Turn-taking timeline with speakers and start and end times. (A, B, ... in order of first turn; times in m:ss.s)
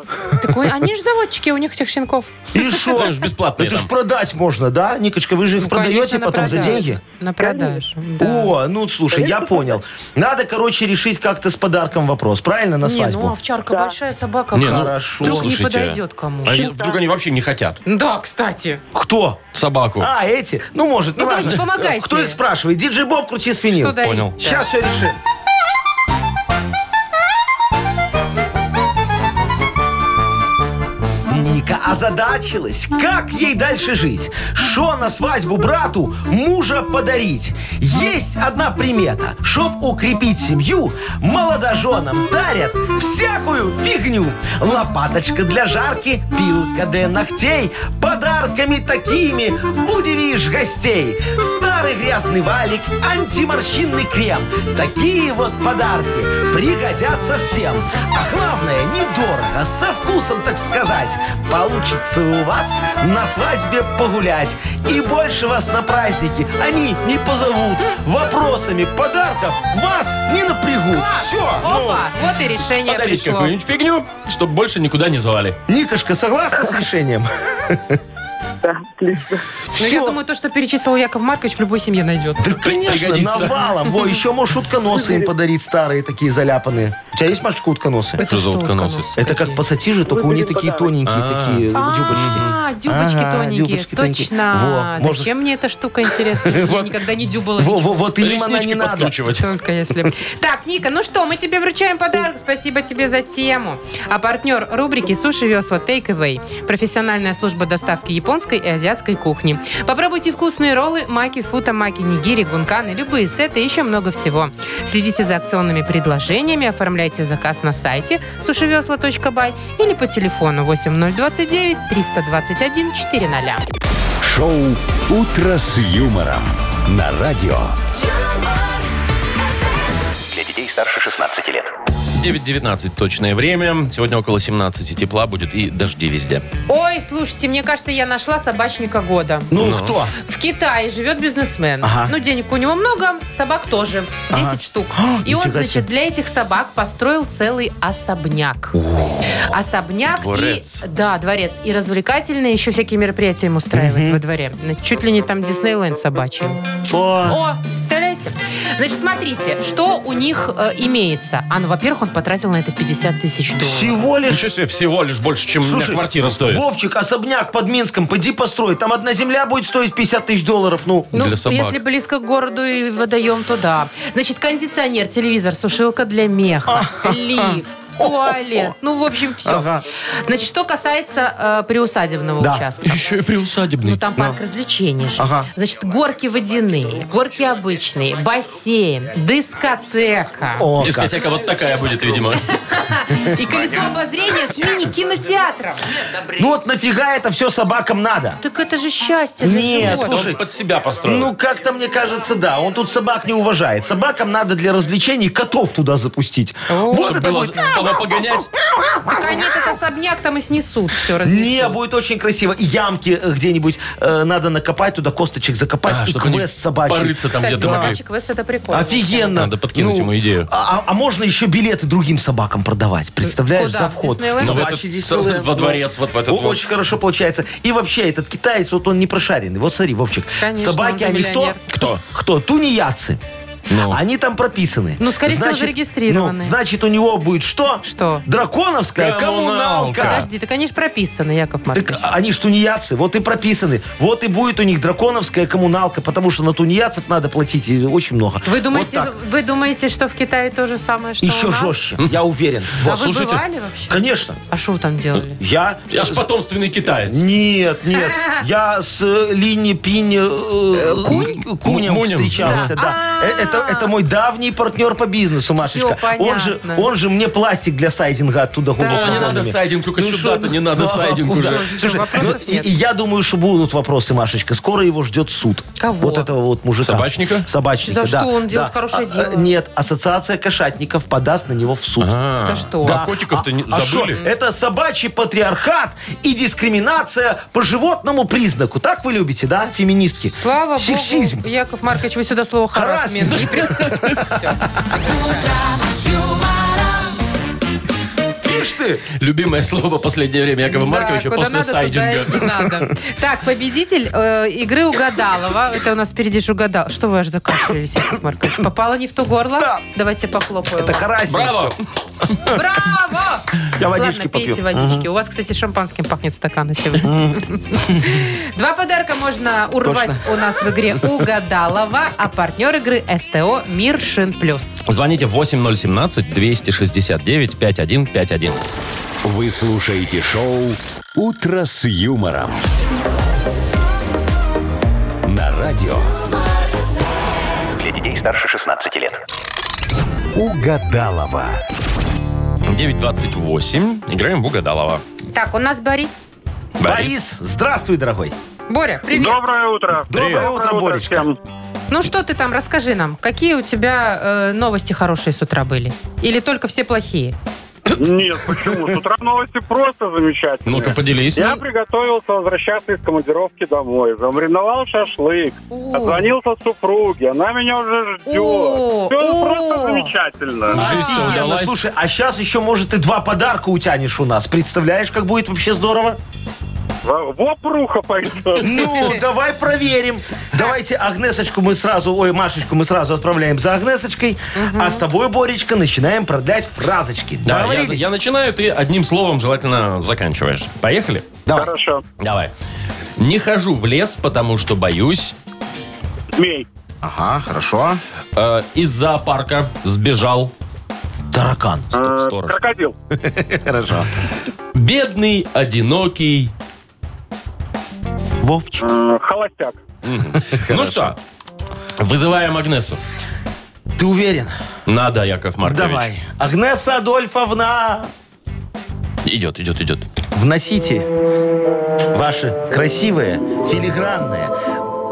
0:00.4-0:02.8 A
0:02.5-0:07.0 B
0:02.8-0:03.9 C
0:05.6-0:08.5 A
0:07.4-0:07.9 D
0:08.2-0:13.4 B
0:09.1-0:09.8 D
0:12.8-0:16.7 A
0:13.7-0:14.0 D
0:14.5-0:17.8 C
0:14.6-0:15.5 B
0:16.6-0:17.0 D
0:17.8-0:18.8 A
0:18.9-0:19.4 B
0:19.5-0:20.1 C
0:20.0-0:25.2 B
0:21.2-0:22.4 A
0:23.7-0:24.7 A
0:24.0-0:24.4 C
0:31.3-1:12.1 B
1:10.9-1:13.5 A
1:12.8-1:15.6 C
1:15.7-1:18.0 B
1:18.6-1:19.4 D
1:19.7-1:20.2 B
1:19.8-1:22.6 A
1:22.4-1:28.2 B
1:22.6-1:23.6 C
1:24.9-1:25.3 D
1:28.2-1:29.6 A
1:28.2-1:29.1 C
1:29.2-1:35.3 B
1:30.0-1:31.0 D
1:31.0-1:32.5 C
1:31.7-1:38.0 A
1:36.3-1:37.0 B
1:37.6-1:39.2 B
1:38.2-1:39.4 C
1:39.4-2:03.6 A
2:04.2-2:07.8 E
2:10.3-2:11.7 F
2:12.1-2:16.4 C
2:16.7-2:19.5 A
2:19.5-2:20.1 B
2:19.6-2:20.0 C
2:20.2-2:28.8 A
2:21.8-2:22.1 B
2:24.3-2:25.9 B
2:29.4-2:36.6 A
2:30.2-2:30.8 C
2:33.7-2:34.2 B
2:36.9-2:37.4 B
2:37.2-2:44.0 A
2:43.6-2:44.4 B
2:44.3-2:46.6 C
2:45.6-2:51.1 B
2:51.1-2:59.7 A
2:51.1-2:51.8 C
2:56.7-2:58.7 B
2:59.4-2:59.8 B
3:00.2-3:03.1 A
3:02.4-3:02.6 B
3:02.8-3:04.0 C
3:03.8-3:10.7 A
3:05.2-3:05.5 B
3:10.6-3:11.2 B
3:10.8-3:12.4 C
3:12.4-3:15.9 A
3:16.3-3:18.4 B
3:18.4-3:20.3 A
3:19.4-3:20.4 B
3:19.8-3:21.3 C
3:21.0-3:28.0 B
3:26.7-3:27.7 A
3:27.0-3:28.5 C
3:28.7-3:29.5 B
3:29.1-3:31.8 A
3:31.2-3:38.0 B
3:35.9-3:38.0 C
3:37.3-3:39.4 A
3:38.7-3:53.2 B
3:39.3-3:40.5 C
3:43.2-3:44.7 A
3:44.4-3:46.6 C
3:50.4-3:51.6 A
3:51.7-3:52.0 C
3:53.7-3:54.0 C
3:53.8-4:00.3 B
3:55.0-3:56.5 A
3:57.8-3:58.2 A
3:59.0-4:00.3 C
4:00.0-4:02.0 A
4:01.7-4:09.1 B
4:08.4-4:11.8 A
4:11.2-4:13.1 B
4:12.8-4:13.4 C
4:12.8-4:13.9 A
4:13.9-4:14.4 B
4:14.5-4:15.4 A
4:15.4-4:16.3 B
4:15.9-4:17.2 C
4:17.0-4:42.1 B
4:20.8-4:21.4 A
4:21.0-4:22.7 C
4:22.4-4:23.9 A
4:25.6-4:26.9 A
4:28.8-4:29.4 A
4:28.8-4:32.0 C
4:31.3-4:32.8 A
4:35.8-4:36.3 A
4:36.8-4:37.5 C
4:37.8-4:39.5 A
4:42.0-4:44.2 C
4:42.4-4:43.0 A
4:42.8-4:51.4 B
4:50.4-4:55.5 A
4:52.7-4:54.0 B
4:55.2-4:56.9 F
4:58.4-4:59.0 B
4:59.1-5:02.6 C
5:00.7-5:11.1 A
5:09.6-5:09.8 B
5:10.8-5:11.8 B
5:11.3-5:11.8 C
5:12.4-5:24.8 A
5:13.8-5:15.1 B
5:17.0-5:18.0 B
5:19.8-5:20.2 B
5:24.9-5:28.6 C
5:29.2-5:32.6 E
5:35.2-5:36.1 E
5:37.8-5:39.2 F
5:40.3-5:41.6 E
5:42.6-5:45.0 C
5:45.3-5:46.2 A
5:46.8-5:47.2 C
5:46.8-5:48.3 B
5:48.7-5:49.4 A
5:49.1-5:51.4 G
5:50.1-5:51.3 B
5:50.1-5:50.5 C
5:51.9-5:57.3 A
5:57.8-5:58.7 C
5:58.0-6:11.0 G
6:00.6-6:01.6 C
6:05.7-6:06.3 A
6:08.2-6:10.1 A
6:10.7-6:11.4 A
6:10.7-6:11.8 C
6:10.7-6:16.2 B
6:17.0-6:18.9 G
6:18.6-6:28.1 B
6:18.7-6:19.2 A
6:24.5-6:25.1 A
6:27.4-6:31.4 C
6:31.5-6:32.0 G
6:32.2-6:32.5 C
6:33.2-6:35.3 C
6:36.3-6:36.7 G
6:37.0-6:38.0 B
6:38.4-6:40.5 C
6:41.3-6:41.9 B
6:41.9-6:42.6 C
6:41.9-6:42.9 G
6:43.1-6:44.1 B
6:44.7-6:46.5 C
6:48.4-6:48.9 B
6:48.8-6:49.8 G
6:50.0-6:51.2 C
6:50.4-6:51.1 B
6:52.0-6:53.0 C
6:54.0-6:54.5 B
6:54.8-6:56.1 C
6:55.6-6:58.1 B
6:59.2-7:00.0 C
7:00.3-7:01.1 B
7:02.1-7:04.5 B